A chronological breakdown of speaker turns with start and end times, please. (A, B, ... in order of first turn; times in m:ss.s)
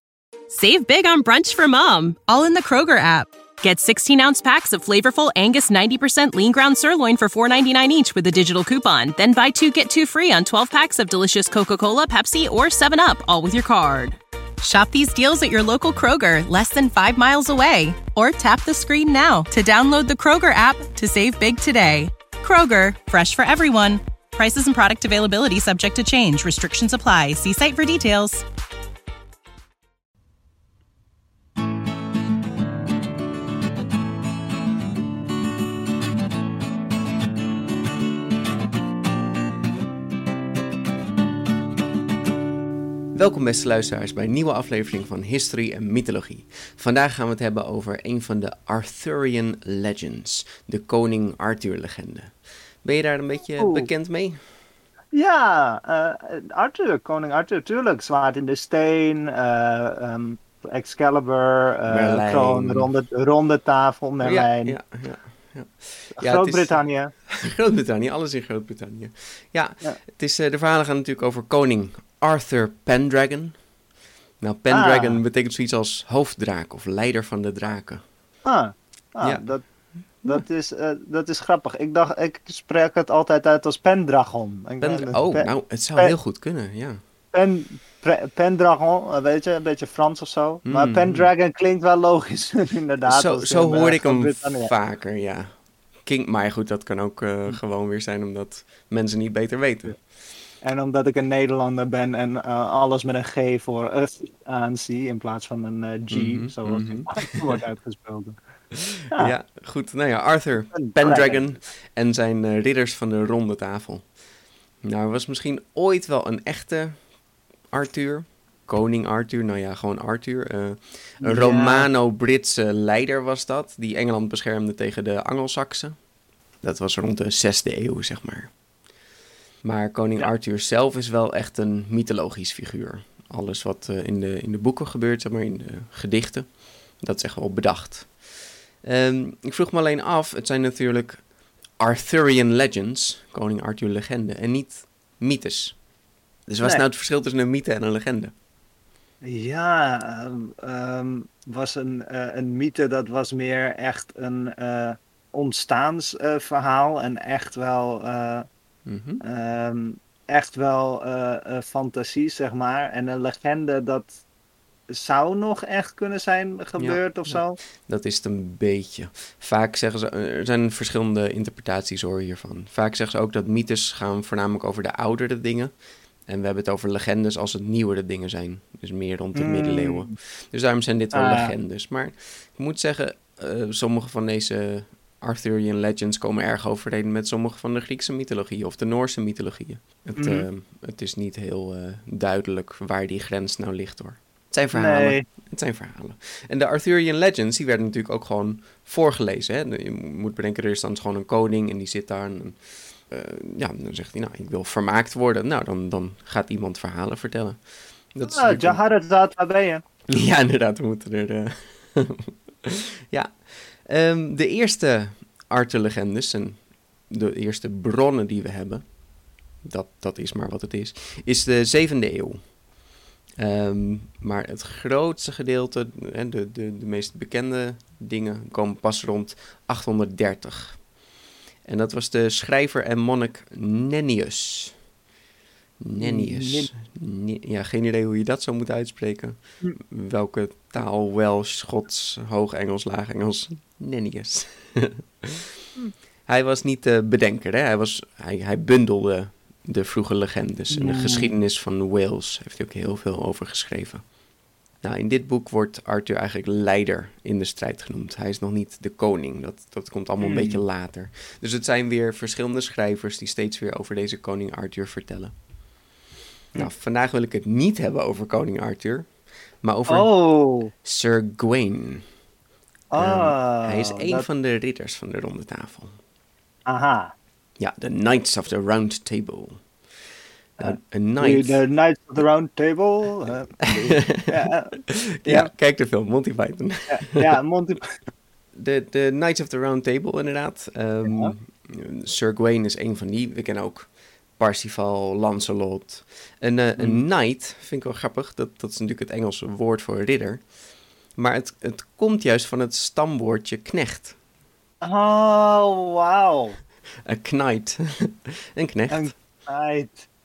0:00.5-0:28.4 A
0:43.1-0:54.4 B
0:53.6-0:53.9 C
0:55.1-1:04.8 C
1:01.9-1:02.9 B
1:04.2-1:13.6 B
1:06.2-1:07.1 C
1:14.4-1:18.0 B
1:14.7-1:15.2 C
1:18.4-1:19.6 C
1:20.2-1:26.1 C
1:24.8-1:27.0 B
1:27.3-1:34.7 C
1:30.6-1:31.3 B
1:33.0-1:35.5 B
1:36.0-1:40.0 B
1:40.6-1:48.4 C
1:46.1-1:47.6 B
1:48.7-1:54.1 B
1:49.1-1:49.3 C
1:50.7-1:51.4 C
1:54.8-1:57.0 B
1:57.7-2:05.9 B
2:01.2-2:01.9 C
2:06.6-2:08.5 B
2:09.6-2:18.2 B
2:18.8-2:21.2 B
2:21.8-2:25.8 B
2:26.5-2:28.3 B
2:29.2-2:38.4 C
2:38.8-2:39.2 B
2:39.2-2:44.1 C
2:44.9-2:47.6 C
2:46.8-2:55.7 B
2:56.3-3:27.6 B
2:59.3-3:00.1 C
3:01.1-3:01.5 C
3:10.2-3:10.4 C
3:14.7-3:15.2 C
3:28.1-3:28.8 B
3:28.3-3:29.8 C
3:30.1-3:38.9 B
3:39.6-3:42.5 B
3:43.4-3:50.9 B
3:51.6-3:54.8 B
3:55.8-4:05.6 B
3:56.0-3:56.7 C
4:06.3-4:14.0 B
4:10.7-4:11.3 C
4:14.8-4:25.3 B
4:20.2-4:20.6 C
4:26.5-4:29.1 B
4:29.6-4:30.1 B
4:29.9-4:30.7 C
4:30.8-4:32.0 B
4:32.9-4:34.2 C
4:33.0-4:36.0 B
4:36.7-4:37.1 C
4:37.6-4:39.6 B
4:40.6-4:45.5 C
4:40.6-4:41.6 B
4:43.7-4:47.3 B
4:46.9-4:48.0 C
4:48.5-5:00.4 B
4:51.0-4:51.3 C
4:56.8-4:57.0 C
5:01.2-5:04.1 B
5:04.8-5:06.6 C
5:07.0-5:09.1 B
5:08.9-5:10.1 C